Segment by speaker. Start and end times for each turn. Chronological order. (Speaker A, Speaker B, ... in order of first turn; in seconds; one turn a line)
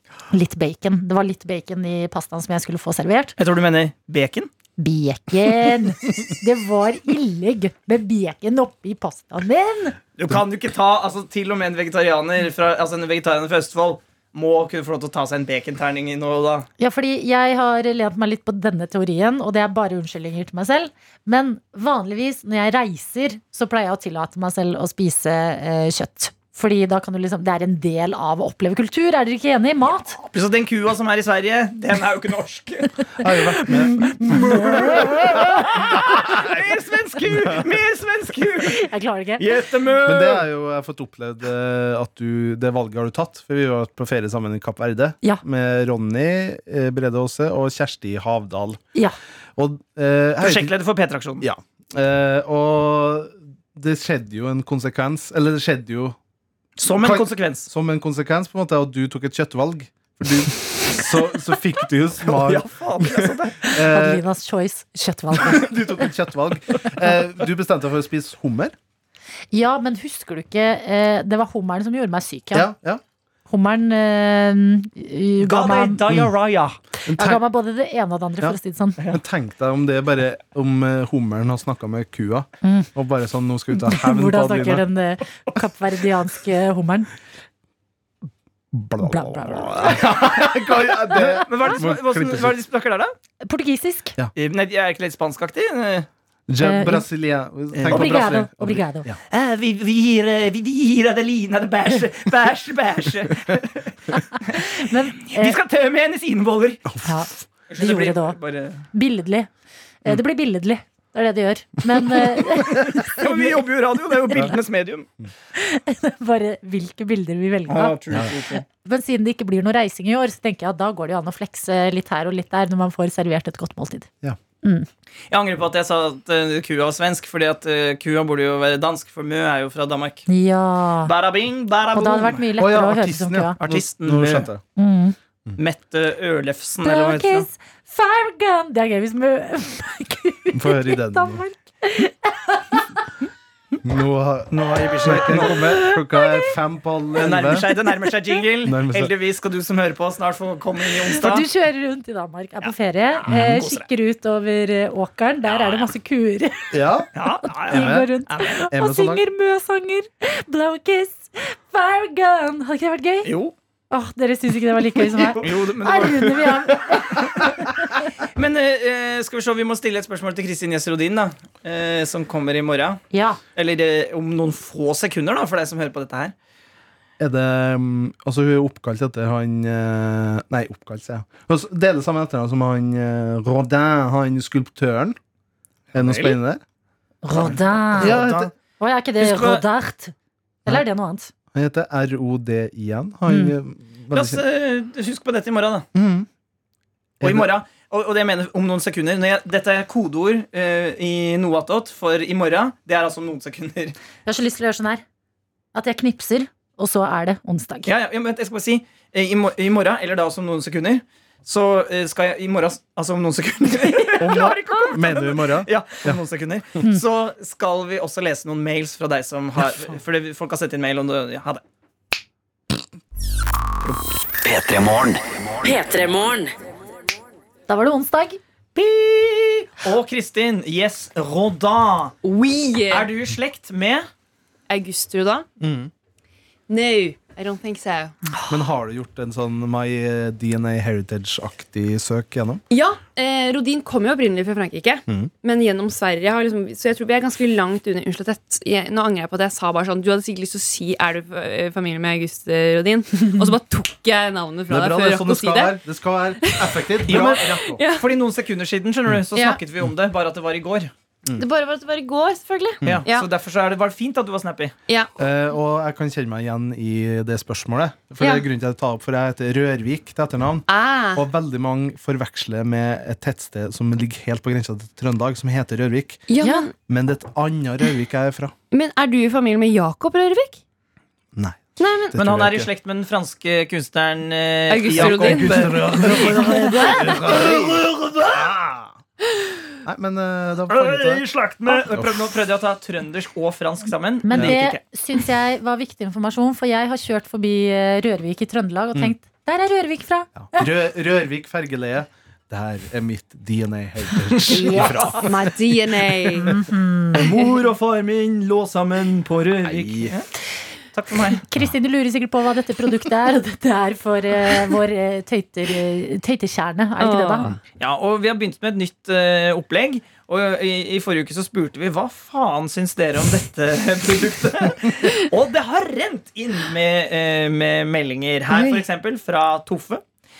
Speaker A: 0.3-3.4
Speaker B: 3.4-4.5
Speaker A: 4.8-9.9
Speaker B: 10.2-16.7
Speaker A: 16.8-30.2
Speaker B: 30.2-33.0
Speaker C: 33.2-34.9
Speaker A: 33.7-35.6
Speaker B: 33.8-38.8
Speaker A: 38.7-39.4
Speaker B: 39.4-40.4
Speaker C: 40.0-48.8
Speaker C: 49.6-50.7
Speaker B: 50.4-51.4
Speaker C: 51.4-56.2
Speaker B: 56.8-57.7
Speaker C: 56.9-64.2
Speaker B: 62.2-63.7
Speaker A: 63.8-66.0
Speaker C: 65.4-68.7
Speaker A: 69.5-72.7
Speaker C: 72.5-73.0
Speaker A: 73.5-76.0
Speaker B: 75.4-76.8
Speaker C: 77.1-77.4
Speaker A: 77.1-79.0
Speaker C: 78.4-84.8
Speaker A: 82.6-82.9
Speaker A: 83.8-87.1
Speaker C: 88.7-92.6
Speaker A: 89.0-90.0
Speaker B: 89.9-93.1
Speaker A: 93.4-94.1
Speaker B: 94.3-96.1
Speaker C: 96.5-99.2
Speaker A: 96.6-97.1
Speaker B: 97.7-98.3
Speaker A: 97.8-99.1
Speaker B: 99.3-104.7
Speaker A: 104.6-105.6
Speaker B: 105.3-106.9
Speaker C: 106.9-107.2
Speaker A: 107.0-108.4
Speaker B: 107.7-108.8
Speaker A: 108.9-109.5
Speaker A: 110.0-113.5
Speaker B: 112.6-115.1
Speaker A: 115.5-118.0
Speaker B: 117.7-118.6
Speaker A: 118.7-124.1
Speaker A: 124.6-124.9
Speaker B: 125.3-130.3
Speaker A: 130.3-131.1
Speaker B: 131.0-132.4
Speaker A: 131.9-133.6
Speaker C: 132.6-134.6
Speaker B: 133.6-134.5
Speaker A: 134.8-135.2
Speaker B: 135.6-137.5
Speaker A: 136.8-142.8
Speaker C: 140.5-141.4
Speaker C: 143.8-147.7
Speaker B: 144.7-145.9
Speaker A: 145.7-146.2
Speaker B: 147.2-151.4
Speaker C: 148.6-149.1
Speaker A: 151.1-156.7
Speaker B: 152.6-153.8
Speaker B: 155.4-155.9
Speaker C: 156.7-157.1
Speaker B: 157.1-158.5
Speaker C: 157.7-158.1
Speaker A: 157.7-163.3
Speaker C: 158.7-159.2
Speaker B: 163.2-163.5
Speaker A: 163.9-168.0
Speaker B: 165.1-167.4
Speaker B: 168.2-173.0
Speaker A: 173.1-173.4
Speaker B: 173.5-176.3
Speaker C: 177.2-185.2
Speaker C: 185.9-186.6
Speaker B: 185.9-186.4
Speaker A: 187.2-188.2
Speaker B: 187.3-188.5
Speaker C: 187.9-188.5
Speaker A: 188.8-190.1
Speaker B: 189.2-189.6
Speaker A: 190.7-191.3
Speaker C: 191.5-194.4
Speaker A: 193.3-193.6
Speaker B: 194.1-195.9
Speaker C: 195.9-196.3
Speaker C: 197.2-197.5
Speaker B: 197.2-203.9
Speaker A: 204.2-205.0
Speaker A: 205.7-207.9
Speaker B: 207.8-221.6
Speaker C: 214.2-216.2
Speaker C: 219.6-219.8
Speaker D: 224.4-226.3
Speaker A: 227.7-228.4
Speaker B: 228.7-232.1
Speaker E: 232.2-233.1
Speaker B: 232.9-234.1
Speaker E: 234.7-235.5
Speaker C: 235.6-235.9
Speaker E: 236.7-238.1
Speaker C: 238.5-242.6
Speaker E: 242.7-255.8
Speaker C: 254.7-257.8
Speaker E: 256.4-258.1
Speaker B: 257.1-260.9
Speaker E: 259.3-259.6
Speaker E: 261.4-263.3
Speaker B: 262.8-264.7
Speaker C: 265.2-276.3
Speaker E: 268.2-268.4
Speaker E: 270.7-271.2
Speaker E: 276.3-276.7
Speaker A: 276.4-276.7
Speaker C: 276.9-278.5
Speaker E: 278.7-280.6
Speaker C: 281.3-282.7
Speaker E: 281.8-282.2
Speaker B: 282.1-288.8
Speaker E: 284.7-287.2
Speaker C: 284.9-287.8
Speaker A: 286.5-286.8
Speaker C: 289.8-292.2
Speaker B: 290.7-294.8
Speaker A: 294.2-300.7
Speaker C: 294.3-294.6
Speaker C: 300.4-306.0
Speaker A: 304.5-305.0
Speaker E: 304.5-306.6
Speaker B: 304.7-305.2
Speaker A: 306.4-307.2
Speaker B: 307.1-310.3
Speaker C: 309.6-310.1
Speaker B: 310.9-311.4
Speaker A: 311.4-317.5
Speaker E: 317.0-317.6
Speaker B: 317.8-330.0